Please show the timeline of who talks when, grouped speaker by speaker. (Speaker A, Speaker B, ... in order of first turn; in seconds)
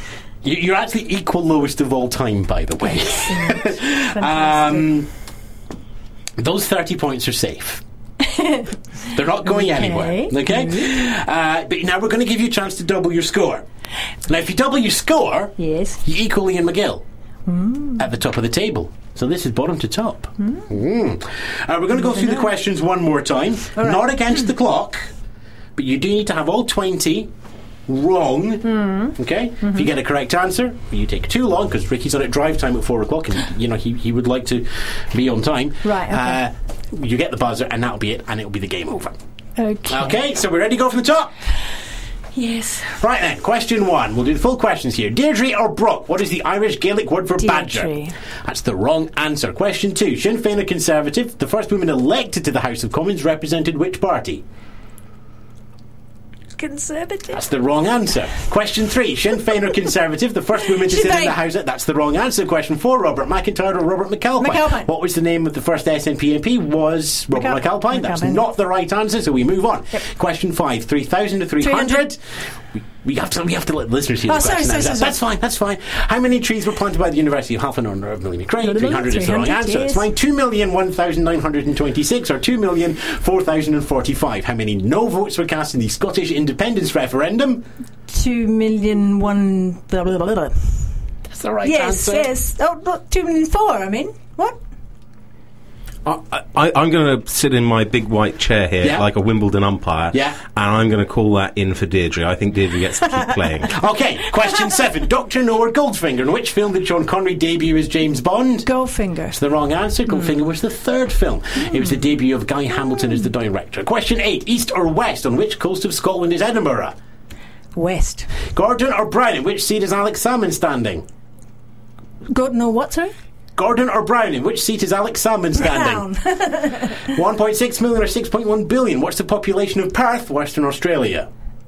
Speaker A: 0.4-5.1, 6.4-7.8, 9.1-13.6, 14.3-17.0, 18.0-25.0, 25.8-27.3, 27.9-39.1, 39.9-41.3, 42.9-47.9, 48.4-54.4, 57.3-72.2, 72.7-87.6, 91.3-92.3, 98.8-99.1, 100.1-100.4, 103.7-108.7, 109.3-116.9, 118.4-121.0, 123.5-126.0, 126.9-131.3
Speaker B: 2.8-4.9, 8.2-8.7, 9.4-10.9, 15.6-16.0, 17.4-18.1, 20.4-20.7, 21.9-22.5, 23.8-24.5, 28.6-29.8, 35.8-36.4, 39.6-40.2, 42.3-42.9, 47.4-48.1, 56.6-57.5, 59.4-59.7, 60.7-61.4, 64.4-64.9, 67.3-68.5, 71.6-72.1, 74.2-75.2, 78.6-80.1, 88.1-90.7, 91.6-94.6, 108.6-109.4, 111.6-111.9, 117.7-118.3, 122.3-123.1, 125.5-127.2
Speaker C: 96.0-103.7